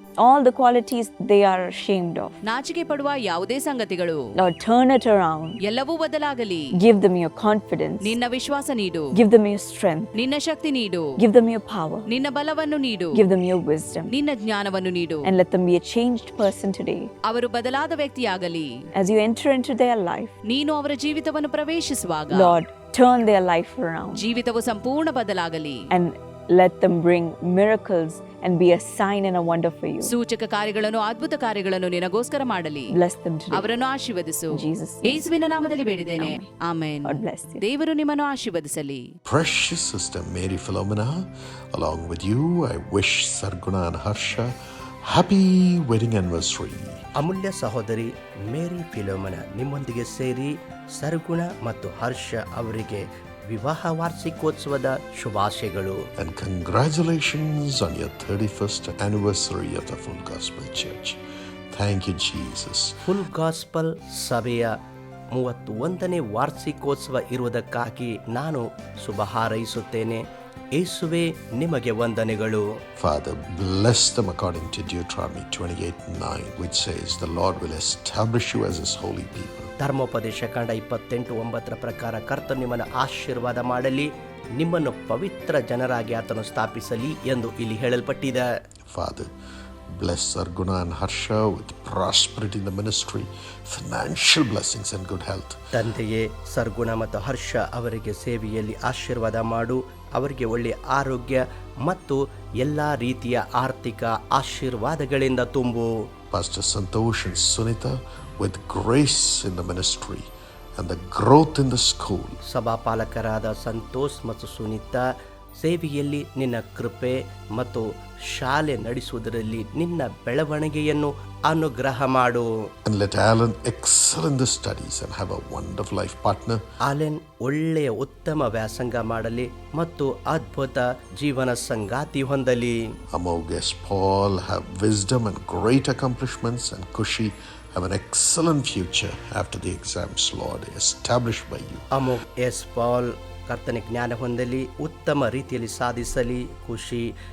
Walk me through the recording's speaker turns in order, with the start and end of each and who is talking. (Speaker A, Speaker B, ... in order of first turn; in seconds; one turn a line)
Speaker A: 0.2-2.4
Speaker B: 2.5-4.2
Speaker A: 4.4-5.6
Speaker B: 5.6-6.7
Speaker A: 6.8-8.2
Speaker B: 8.0-9.1
Speaker A: 9.2-10.1
Speaker B: 10.2-11.1
Speaker A: 11.2-12.1
Speaker B: 12.1-13.1
Speaker A: 13.2-14.1
Speaker B: 14.1-15.3
Speaker A: 15.2-17.1
Speaker B: 17.3-18.7
Speaker A: 18.9-20.3
Speaker B: 20.5-22.6
Speaker A: 22.3-24.2
Speaker B: 24.1-25.8
Speaker A: 25.9-30.1
Speaker B: 30.0-32.9
Speaker A: 32.9-33.7
Speaker B: 33.5-39.1
Speaker A: 34.5-35.3
Speaker A: 36.2-36.5
Speaker A: 37.1-37.6
Speaker C: 39.3-47.1
Speaker D: 47.2-56.0
Speaker C: 56.2-61.2
Speaker C: 61.7-63.0
Speaker D: 63.0-64.7
Speaker D: 65.3-70.2
Speaker D: 70.8-72.6
Speaker C: 73.0-79.7
Speaker D: 79.8-88.5
Speaker C: 88.9-89.3
Speaker C: 90.0-95.6
Speaker D: 95.7-105.9
Speaker C: 106.3-112.4
Speaker D: 112.5-115.0
Speaker D: 115.6-122.5
Speaker C: 122.9-126.6
Speaker D: 126.9-132.8
Speaker C: 133.1-141.9
Speaker D: 141.9-147.1